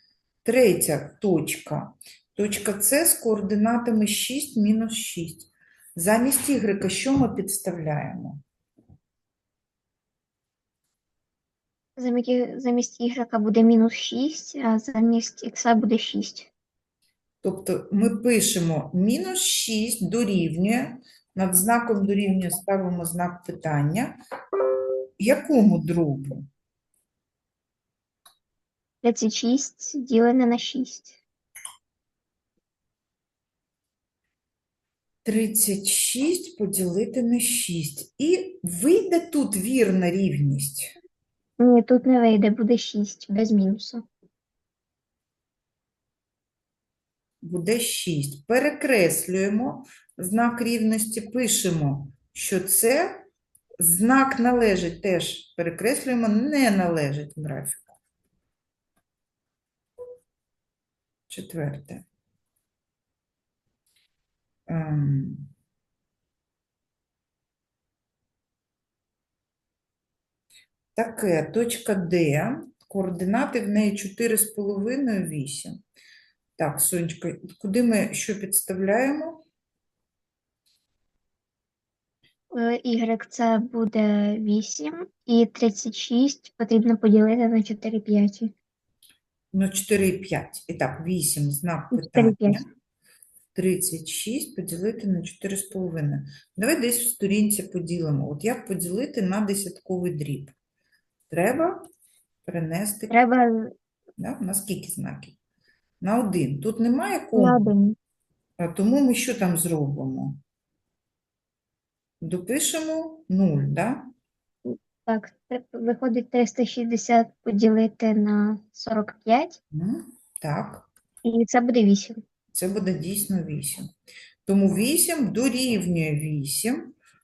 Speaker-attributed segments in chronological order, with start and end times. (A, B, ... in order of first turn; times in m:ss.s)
0:00.4-0:08.4 A
0:12.0-0:16.5 B
0:17.4-0:24.2 A
0:25.2-0:26.5 A
0:29.0-0:31.2 B
0:35.2-0:41.0 A
0:41.6-0:44.1 B
0:47.4-0:53.2 A
0:53.8-0:58.0 A
1:01.3-1:02.0 A
1:04.7-1:05.5 A
1:11.0-1:15.8 A
1:16.6-1:19.4 A
1:22.5-1:28.5 B
1:29.5-1:32.7 A
1:31.9-1:32.6 B
1:33.6-1:40.5 A
1:41.3-1:41.9 A
1:42.4-1:43.2 A
1:43.1-1:43.8 B
1:44.2-1:45.4 A
1:46.0-1:47.7 A
1:47.4-1:48.0 B
1:48.6-1:50.4 A
1:52.2-1:54.1 A
1:54.7-1:59.6 B
1:59.7-2:00.9 A
2:01.2-2:02.2 B
2:02.5-2:03.9 A
2:04.5-2:06.9 A